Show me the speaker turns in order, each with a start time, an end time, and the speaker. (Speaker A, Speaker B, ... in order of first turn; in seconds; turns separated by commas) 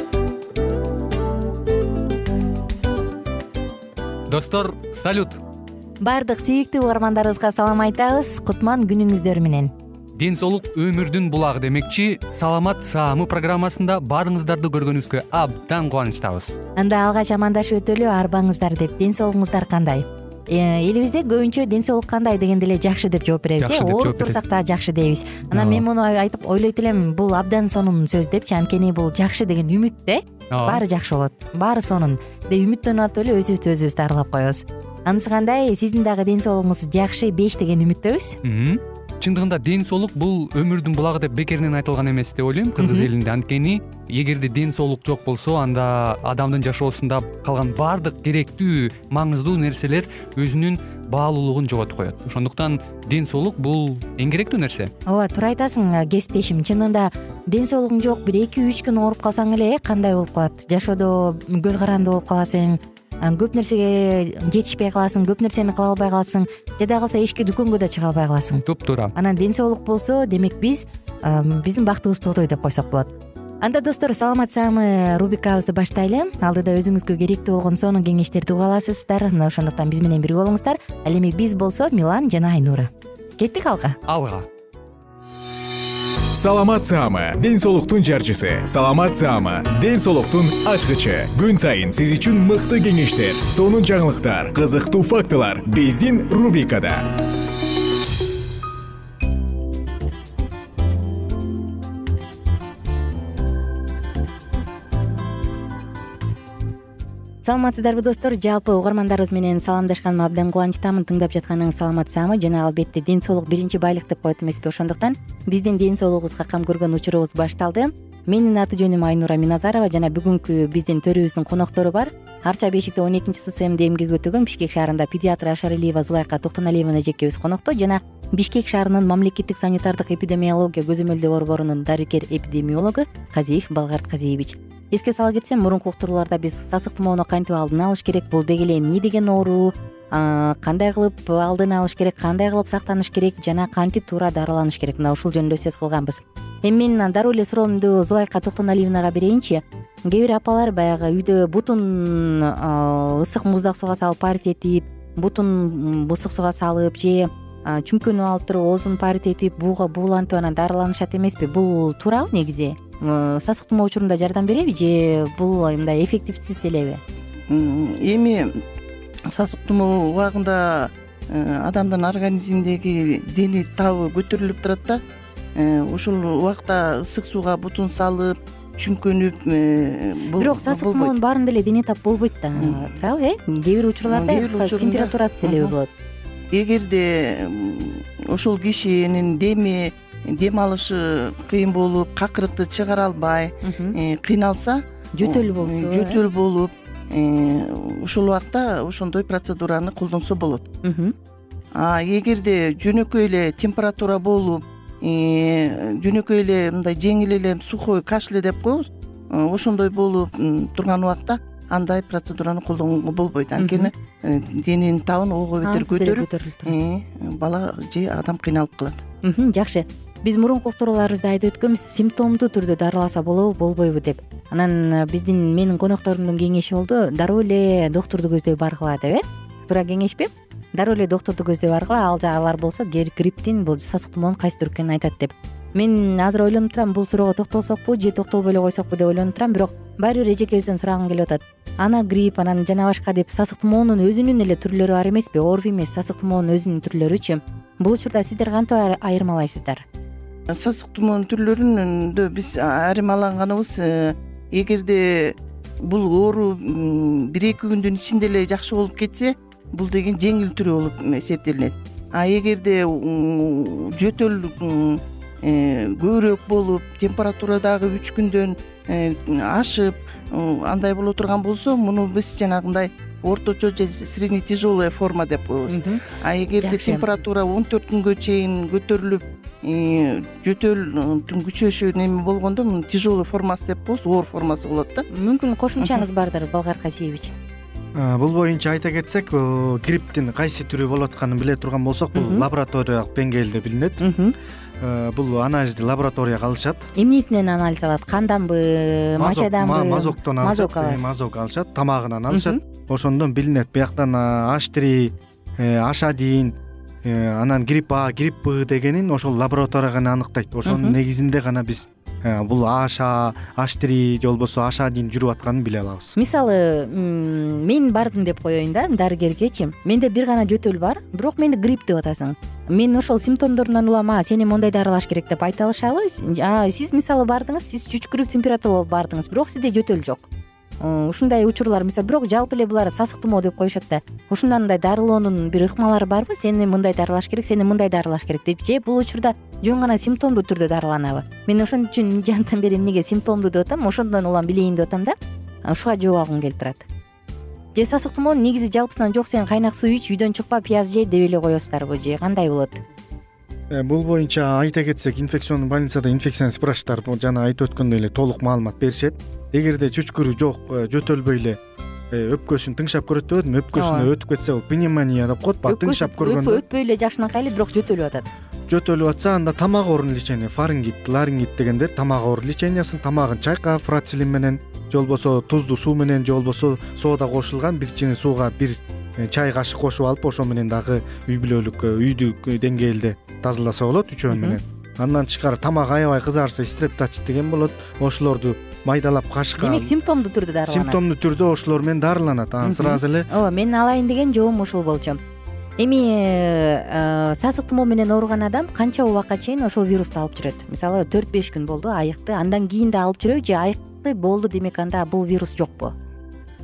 Speaker A: 4.3-5.4, Speaker B: 6.0-9.7, Speaker A: 10.2-16.6, Speaker B: 16.8-38.4, Speaker A: 23.6-24.4, Speaker A: 25.5-25.8, Speaker A: 30.5-30.8, Speaker A: 38.4-54.9, Speaker B: 42.8-43.1, Speaker B: 55.0-68.6, Speaker A: 68.7-69.1, Speaker B: 69.1-84.0, Speaker A: 84.1-84.5, Speaker C: 86.3-97.0, Speaker B: 107.4-167.0, Speaker D: 167.5-168.5, Speaker D: 169.3-175.0, Speaker D: 175.5-181.2, Speaker B: 180.4-185.9, Speaker D: 182.6-182.9, Speaker D: 184.1-185.7, Speaker D: 186.5-200.7, Speaker B: 193.6-193.9, Speaker B: 195.1-196.2, Speaker B: 200.8-201.1, Speaker D: 201.7-219.0, Speaker B: 213.6-213.9, Speaker B: 215.6-216.7, Speaker B: 219.2-249.8, Speaker D: 250.5-285.1, Speaker B: 275.7-276.0, Speaker B: 276.6-277.1, Speaker B: 285.1-287.3, Speaker E: 287.9-294.0, Speaker B: 292.1-292.5, Speaker B: 294.0-294.3, Speaker E: 294.8-296.9, Speaker B: 296.9-301.0, Speaker E: 299.2-316.1, Speaker B: 302.3-302.6, Speaker B: 310.6-311.0, Speaker B: 316.1-330.3, Speaker B: 330.8-346.9, Speaker B: 347.7-352.8, Speaker E: 353.7-361.6, Speaker E: 362.1-366.6, Speaker B: 363.7-364.1, Speaker B: 365.6-368.3, Speaker E: 368.7-389.9, Speaker B: 384.3-384.6, Speaker B: 389.6-391.0, Speaker E: 390.7-393.3, Speaker B: 392.6-395.2, Speaker B: 395.8-405.9